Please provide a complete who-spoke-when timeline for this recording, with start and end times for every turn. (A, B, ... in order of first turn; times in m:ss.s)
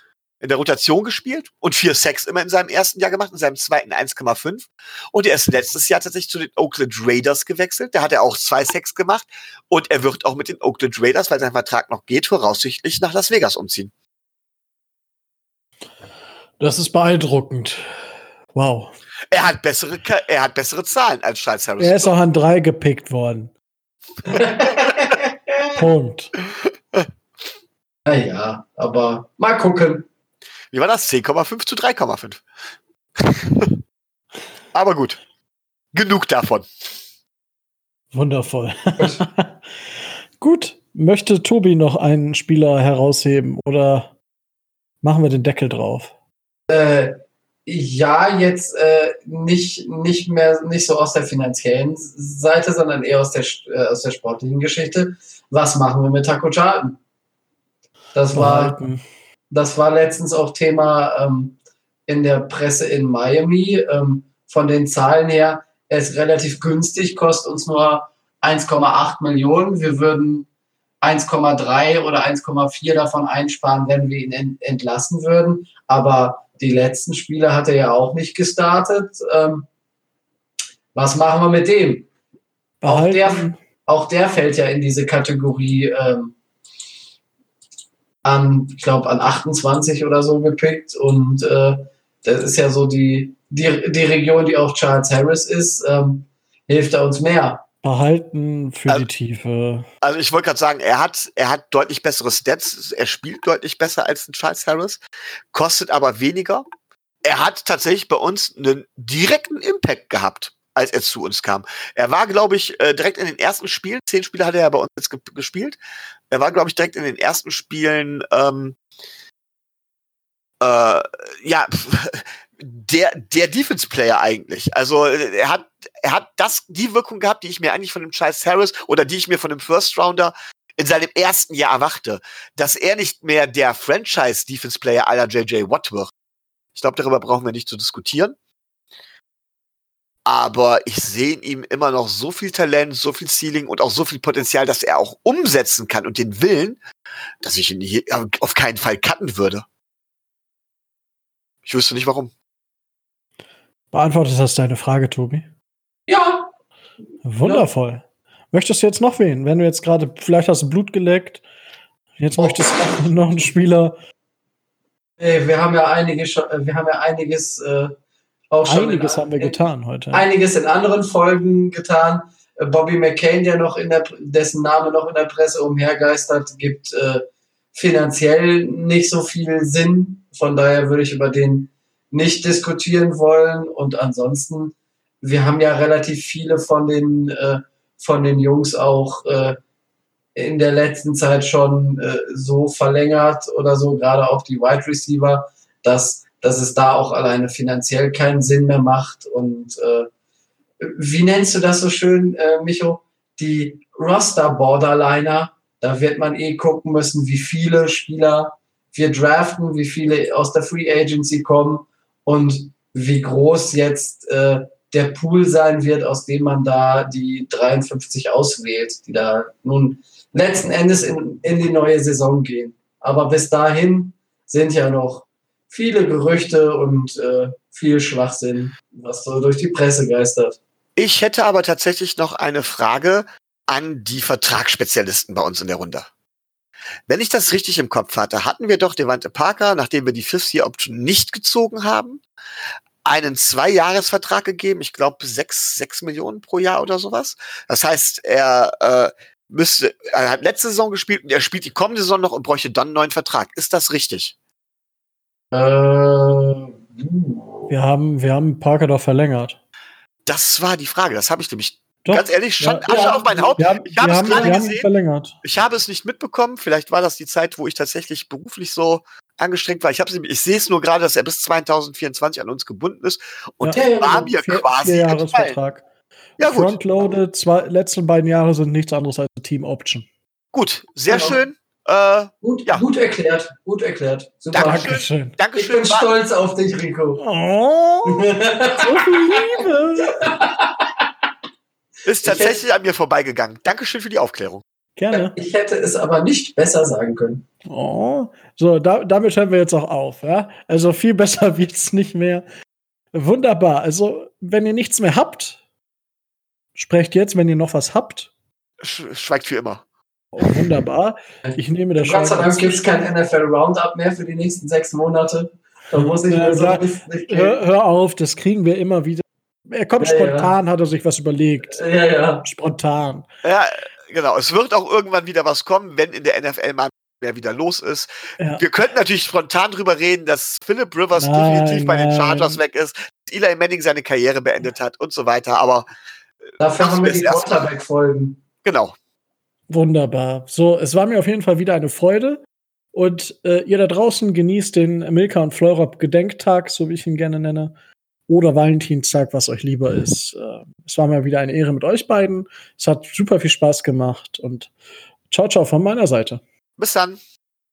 0:00.4-0:13.9 A
0:16.6-0:17.9 B
0:18.5-0:18.9 B
0:19.3-0:22.1 A
0:21.8-0:23.5 B
0:24.3-0:25.1 C
0:24.7-0:25.2 A
0:25.7-0:26.3 B
0:26.6-0:27.1 A
0:28.0-0:30.0 C
0:30.7-0:32.4 A
0:33.2-0:33.8 A
0:34.7-0:35.2 A
0:35.9-0:36.7 A
0:38.1-0:39.6 B
0:40.4-0:44.1 B
0:45.0-0:46.1 B
0:46.7-0:57.0 C
0:58.1-0:58.8 C
0:58.3-0:59.0 B
0:59.5-1:01.6 C
1:02.1-1:10.5 C
1:11.0-1:19.6 C
1:20.9-1:22.1 C
1:22.8-1:23.6 B
1:22.8-1:26.3 C
1:28.2-1:37.6 C
1:37.8-1:39.9 B
1:40.0-1:46.6 A
1:47.2-1:55.8 A
1:56.3-1:58.8 A
2:00.6-2:16.1 A
2:16.7-2:18.4 A
2:20.2-2:26.8 A
2:27.4-2:29.6 A
2:31.6-2:32.3 A
2:33.9-2:35.5 B
2:36.1-2:36.5 C
2:37.2-2:41.4 B
2:37.4-2:37.7 C
2:42.2-2:44.0 B
2:42.4-2:43.1 C
2:45.2-2:47.9 C
2:48.5-2:57.2 C
2:48.6-2:50.2 B
2:57.7-3:09.6 C
3:10.3-3:20.1 C
3:20.8-3:50.6 C
3:51.0-3:56.1 A
3:57.1-4:02.2 A
4:03.0-4:14.3 A
4:15.5-4:17.7 C
4:17.7-4:19.6 B
4:20.2-4:24.9 A
4:22.0-4:25.4 B
4:22.9-4:23.6 C
4:24.1-4:24.6 C
4:25.4-4:35.6 A
4:33.6-4:34.3 C
4:34.3-4:35.8 B
4:36.4-4:36.8 A
4:36.4-4:40.0 B
4:40.5-4:42.8 A
4:41.1-4:41.4 C
4:42.4-4:44.9 C
4:44.5-4:46.1 A
4:44.6-4:45.3 B
4:45.6-4:47.2 C
4:47.2-4:50.3 B
4:48.0-4:49.4 C
4:50.1-4:50.9 C
4:52.0-4:54.6 A
4:52.2-4:52.6 C
4:55.0-4:55.4 B
4:55.1-4:57.4 C
4:57.6-5:02.4 B
5:03.1-5:05.6 B
5:06.7-5:08.3 B
5:08.8-5:09.8 A
5:10.3-5:13.0 B
5:11.4-5:17.6 C
5:16.0-5:21.8 B
5:20.0-5:20.5 C
5:21.7-5:22.4 C
5:22.4-5:23.2 B
5:23.4-5:35.9 A
5:31.1-5:32.6 B
5:36.6-5:38.4 C
5:36.8-5:37.6 A
5:38.6-5:38.9 A
5:39.7-5:42.4 B
5:42.9-5:47.7 B
5:48.3-5:54.7 B
5:55.3-5:56.4 B
5:56.8-5:57.2 A